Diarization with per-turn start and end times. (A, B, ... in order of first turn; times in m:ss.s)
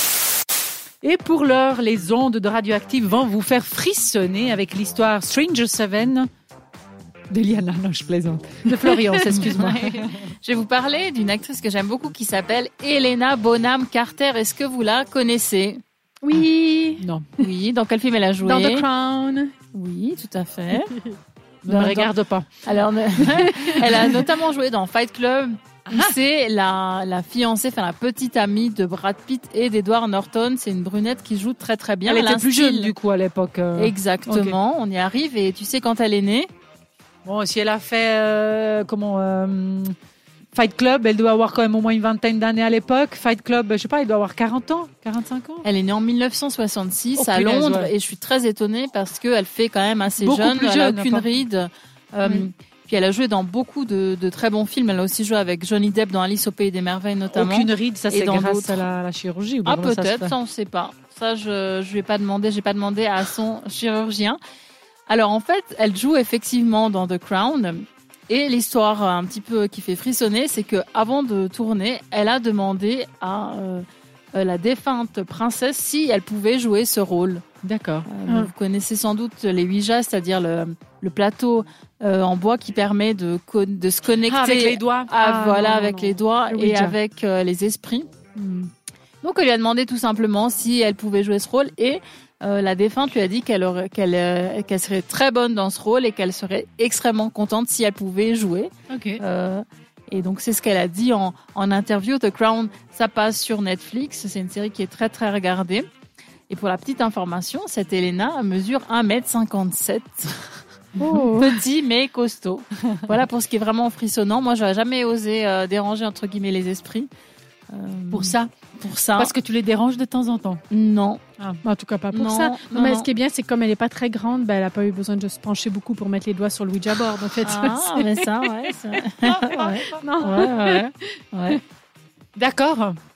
0:01.0-0:06.3 A
0:07.3-0:10.2 A
0:08.7-0:09.5 B
0:09.3-0:15.8 C
0:16.2-0:17.0 B
0:17.0-0:17.3 A
0:17.4-0:18.8 C
0:18.4-0:19.5 B
0:19.7-0:20.9 C
0:21.6-0:22.5 A
0:21.7-0:22.1 C
0:22.6-0:32.9 C
0:23.3-0:24.1 B
0:32.0-0:34.6 A
0:33.8-0:36.5 C
0:37.2-0:39.9 A
0:40.5-0:45.6 A
0:45.6-0:58.8 C
0:47.2-0:47.9 A
0:50.2-0:51.2 A
0:57.3-1:00.3 A
0:59.6-1:04.4 C
1:05.1-1:17.4 C
1:17.6-1:18.1 A
1:18.1-1:28.1 C
1:24.2-1:25.1 A
1:25.2-1:26.9 B
1:29.2-1:45.9 C
1:38.9-1:39.2 A
1:46.5-1:50.4 C
1:51.0-1:51.6 B
1:51.3-1:57.1 C
1:57.7-1:59.3 C
1:58.1-1:58.5 A
1:59.2-2:00.6 A
2:00.7-2:01.2 C
2:01.6-2:08.7 B
2:02.1-2:03.1 C
2:07.4-2:11.6 C
2:09.3-2:10.9 B
2:12.4-2:13.0 A